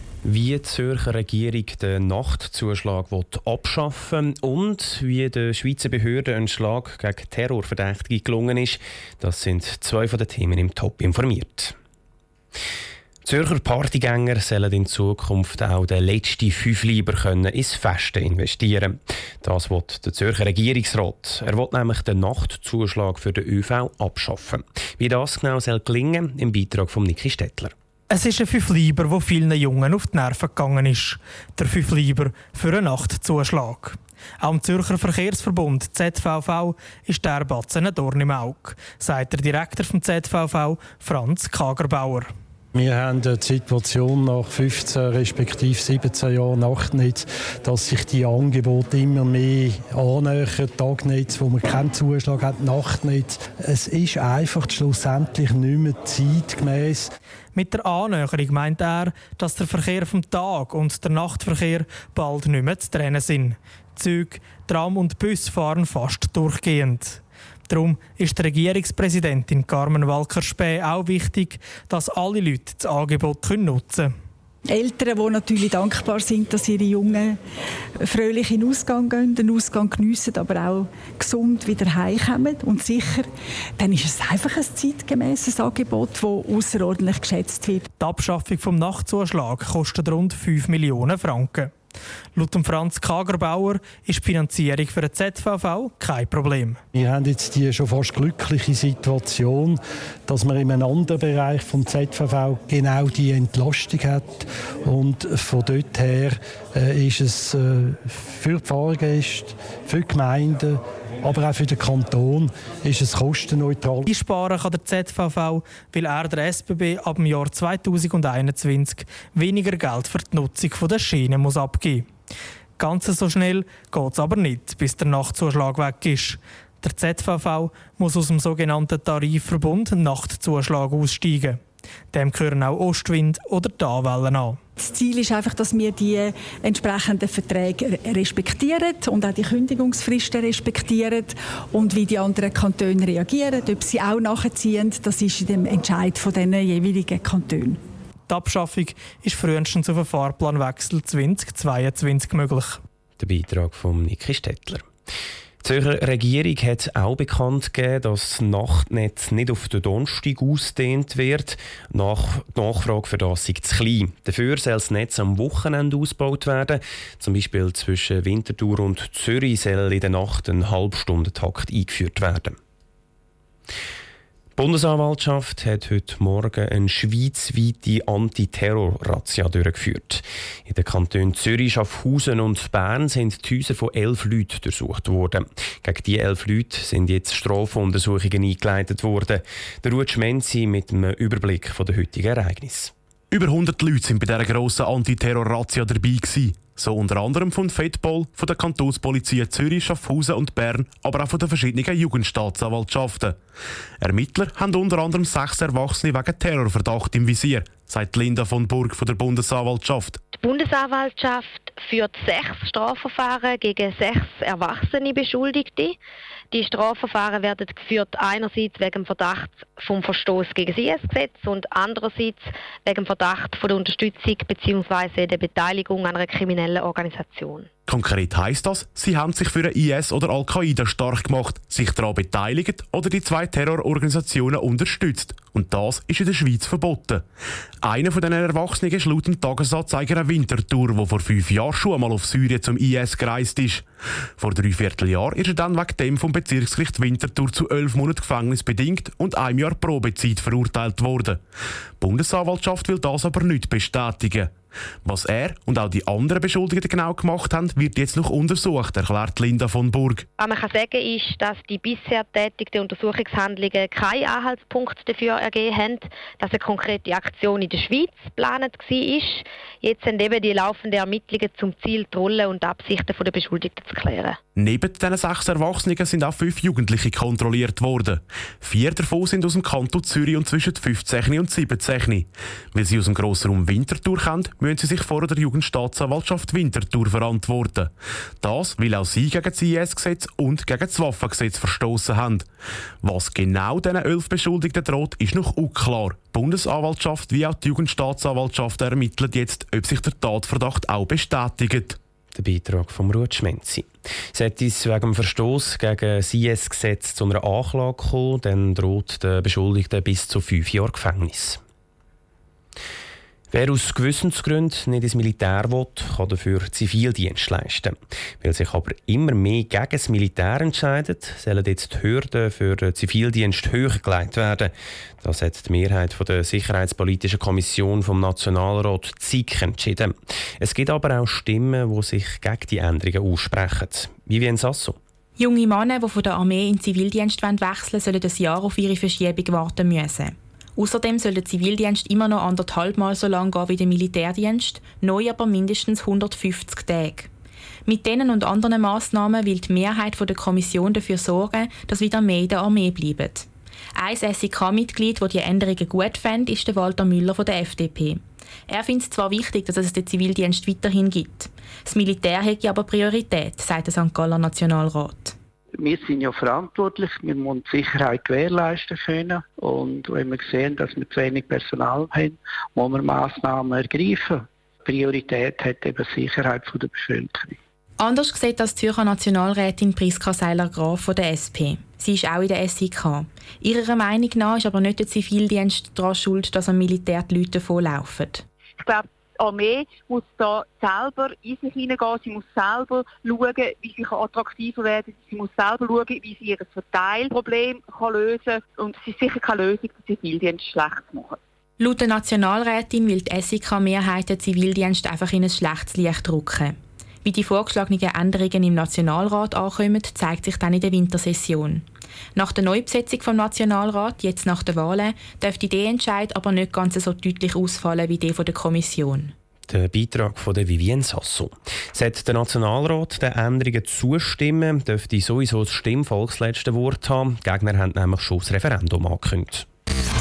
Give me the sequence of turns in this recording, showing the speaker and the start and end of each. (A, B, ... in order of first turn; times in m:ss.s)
0:00.2-0:11.7 A
0:13.2-0:27.7 A
0:28.1-0:42.3 B
0:42.7-0:57.1 C
0:57.5-1:14.1 B
1:14.6-1:17.4 D
1:18.0-1:27.9 D
1:28.0-1:31.7 B
1:32.3-1:36.8 B
1:36.9-1:54.1 C
1:54.0-2:02.1 B
2:02.8-2:11.6 B
2:12.1-2:14.6 B
2:14.8-2:27.8 D
2:28.3-2:32.8 B
2:33.2-2:34.9 A
2:35.6-2:52.6 A
2:54.6-3:12.9 A
3:13.3-3:23.4 E
3:24.0-3:30.2 E
3:30.4-3:36.0 F
3:36.5-3:47.6 F
3:47.9-3:57.2 E
3:57.8-4:03.8 E
4:04.4-4:11.4 E
4:12.0-4:14.5 E
4:15.0-4:20.2 E
4:20.4-4:34.4 F
4:34.6-4:52.5 E
4:53.0-5:02.0 E
5:02.3-5:11.6 A
5:13.5-5:24.7 A
5:25.2-5:35.0 A
5:35.4-5:47.3 G
5:47.9-6:05.3 G
6:05.8-6:17.6 H
6:18.0-6:28.4 G
6:28.8-6:41.4 I
6:41.8-6:59.3 G
6:59.7-7:09.6 A